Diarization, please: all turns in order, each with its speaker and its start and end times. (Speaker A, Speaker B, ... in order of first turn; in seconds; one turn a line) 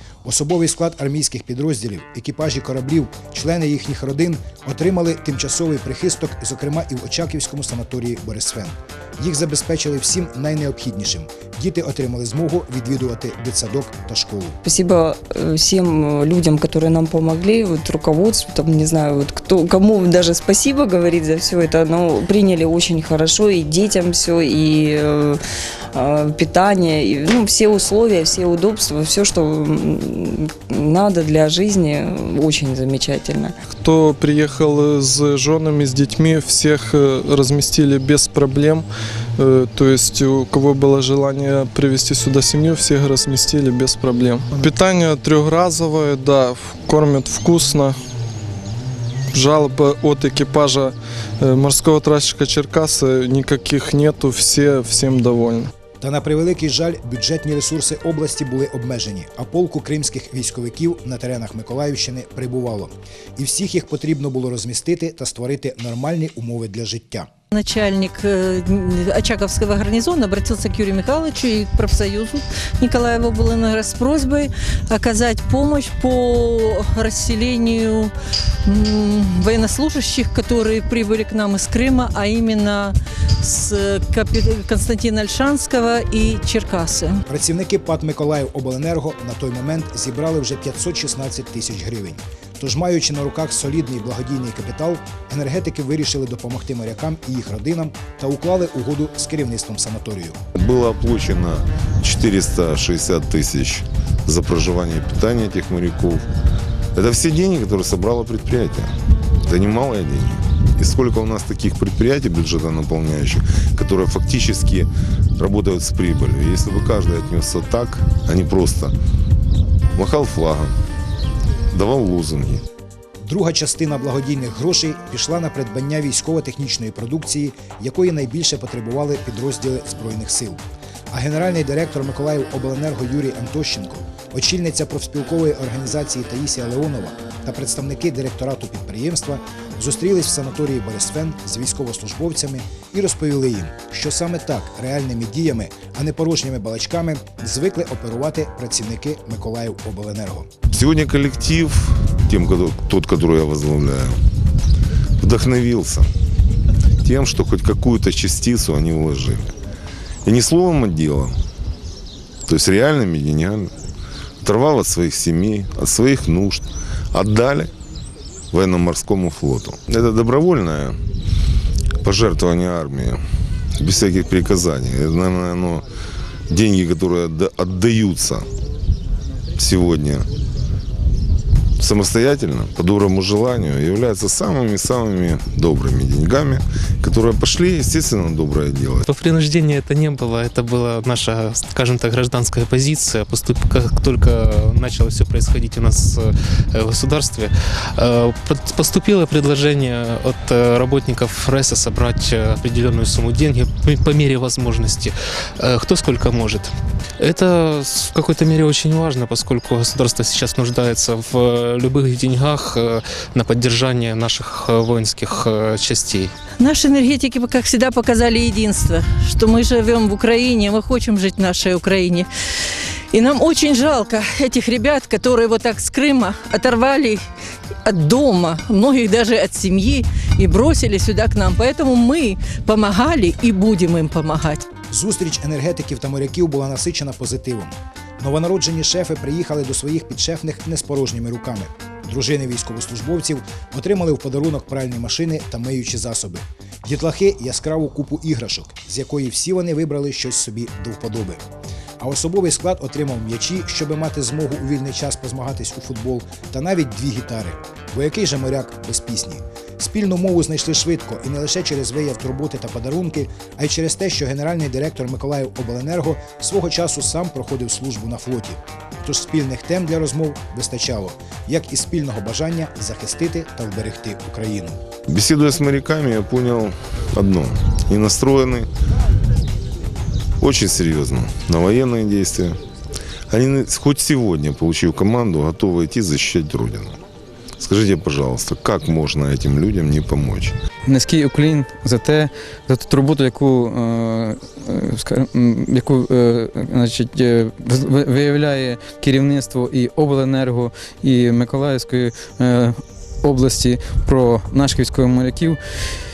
Speaker A: 0.2-14.6
Speaker B: 14.6-25.4
Speaker B: 25.9-33.5
Speaker C: 33.7-38.9
Speaker C: 39.4-48.0
Speaker C: 49.3-55.7
Speaker A: 56.0-67.3
Speaker D: 67.5-78.1
Speaker D: 78.6-87.2
Speaker A: 87.3-100.4
Speaker E: 100.5-106.2
Speaker E: 106.9-118.9
Speaker E: 119.9-120.8
Speaker E: 121.7-122.6
Speaker A: 123.2-150.5
Speaker E: 150.7-154.2
Speaker E: 155.2-156.1
Speaker E: 157.0-159.5
Speaker E: 160.2-161.4
Speaker E: 162.4-163.7
Speaker E: 164.4-167.7
Speaker E: 168.5-171.0
Speaker E: 172.0-173.2
Speaker E: 173.8-175.8
Speaker E: 176.5-178.5
Speaker E: 179.5-180.3
Speaker E: 181.8-189.0
Speaker F: 189.1-216.3
Speaker D: 216.6-222.3
Speaker D: 223.1-227.2
Speaker D: 227.8-234.6
Speaker A: 234.9-251.4
Speaker A: 252.0-274.8
Speaker E: 275.1-278.7
Speaker E: 280.4-282.6
Speaker E: 283.3-287.0
Speaker E: 287.6-290.6
Speaker G: 290.9-305.9